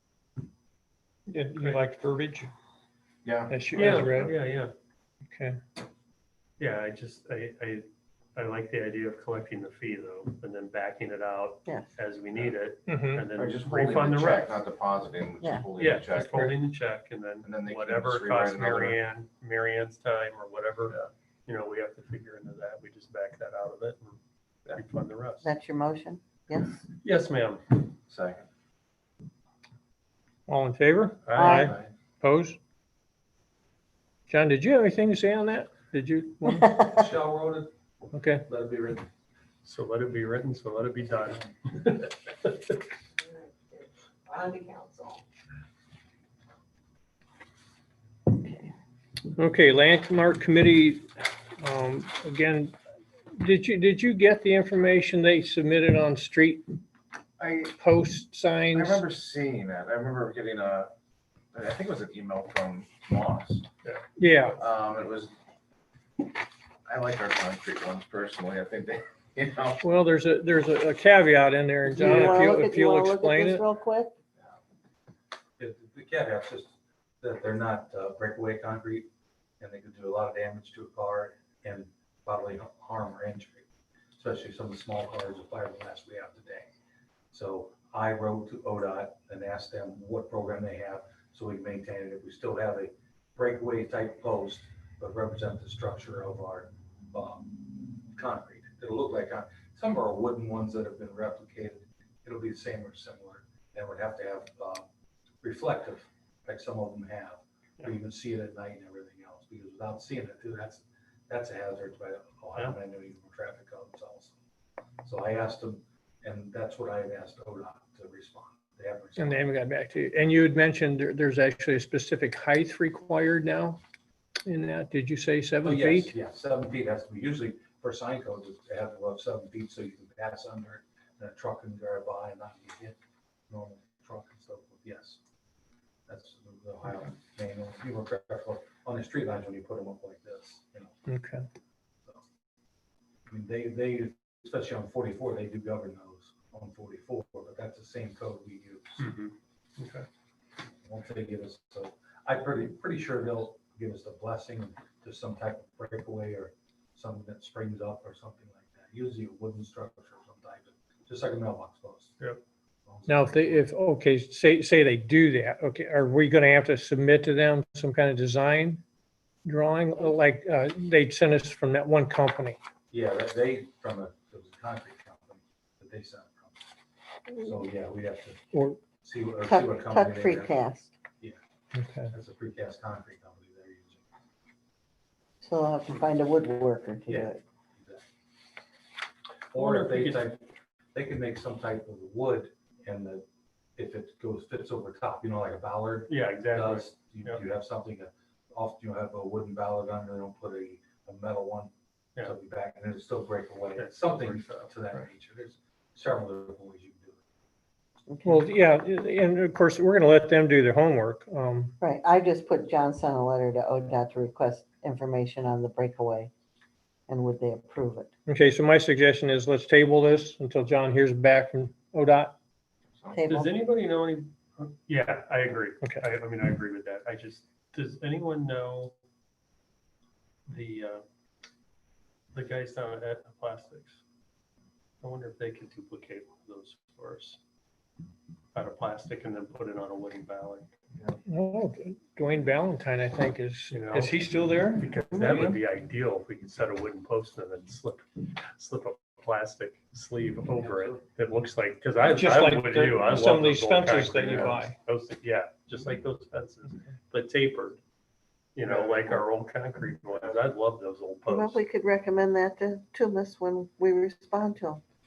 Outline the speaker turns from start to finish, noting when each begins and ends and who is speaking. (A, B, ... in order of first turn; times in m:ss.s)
0:01.3-0:02.5 A
0:03.2-0:04.3 B
0:03.5-0:04.3 A
0:03.8-0:04.7 C
0:06.6-0:14.6 C
0:12.9-0:13.3 A
0:13.3-0:16.6 B
0:15.8-0:24.2 C
0:17.4-0:19.0 B
0:24.7-0:25.5 C
0:25.4-0:26.8 D
0:27.0-0:27.9 C
0:28.1-0:28.4 B
0:30.5-0:32.6 A
0:31.3-0:31.7 C
0:31.4-0:31.7 D
0:31.5-0:31.9 B
0:34.3-0:36.7 A
0:36.5-0:36.9 D
0:36.8-0:37.7 E
0:38.1-0:38.4 A
0:38.5-0:39.1 E
0:39.6-0:42.8 C
0:43.2-0:45.2 D
0:48.3-0:48.7 D
0:49.4-0:51.1 A
0:51.6-0:52.7 A
0:53.4-0:56.6 A
0:57.4-0:57.8 B
0:57.8-0:59.0 A
0:58.7-1:00.9 B
1:01.5-1:03.7 B
1:04.2-1:04.6 A
1:04.6-1:05.3 B
1:06.9-1:09.8 B
1:09.8-1:13.7 A
1:11.9-1:14.1 D
1:15.6-1:19.1 E
1:19.6-1:23.6 E
1:24.2-1:26.7 E
1:27.3-1:44.9 E
1:45.4-1:54.4 E
1:55.0-1:59.5 E
1:59.2-2:03.8 A
2:04.5-2:06.1 A
2:05.6-2:13.0 E
2:13.5-2:15.2 E
2:16.1-2:21.0 E
2:21.1-2:21.4 A
2:23.3-2:29.1 E
2:29.0-2:30.1 C
2:30.8-2:42.2 E
2:42.9-2:43.7 E
2:43.1-2:48.8 A
2:49.5-2:52.6 A
2:52.9-2:56.6 E
2:57.4-2:58.4 E
2:58.5-2:58.8 A
2:59.0-3:00.6 E
2:59.5-3:00.9 D
3:01.8-3:02.1 A
3:02.1-3:04.0 E
3:05.4-3:07.4 D
3:07.1-3:08.0 E
3:09.5-3:13.3 E
3:09.6-3:10.3 C
3:13.8-3:27.2 E
3:16.1-3:17.4 C
3:23.8-3:25.0 C
3:28.1-3:28.4 D
3:28.2-3:31.7 A
3:31.8-3:36.3 D
3:37.1-3:38.1 D
3:38.3-3:42.4 A
3:43.1-3:43.6 D
3:43.3-3:48.9 C
3:50.5-3:51.0 C
3:52.3-3:54.0 C
3:55.0-3:57.4 C
3:58.6-4:00.7 C
4:01.3-4:04.9 A
4:03.7-4:04.1 C
4:04.8-4:17.8 C
4:12.0-4:14.8 A
4:18.6-4:21.6 C
4:21.3-4:24.8 D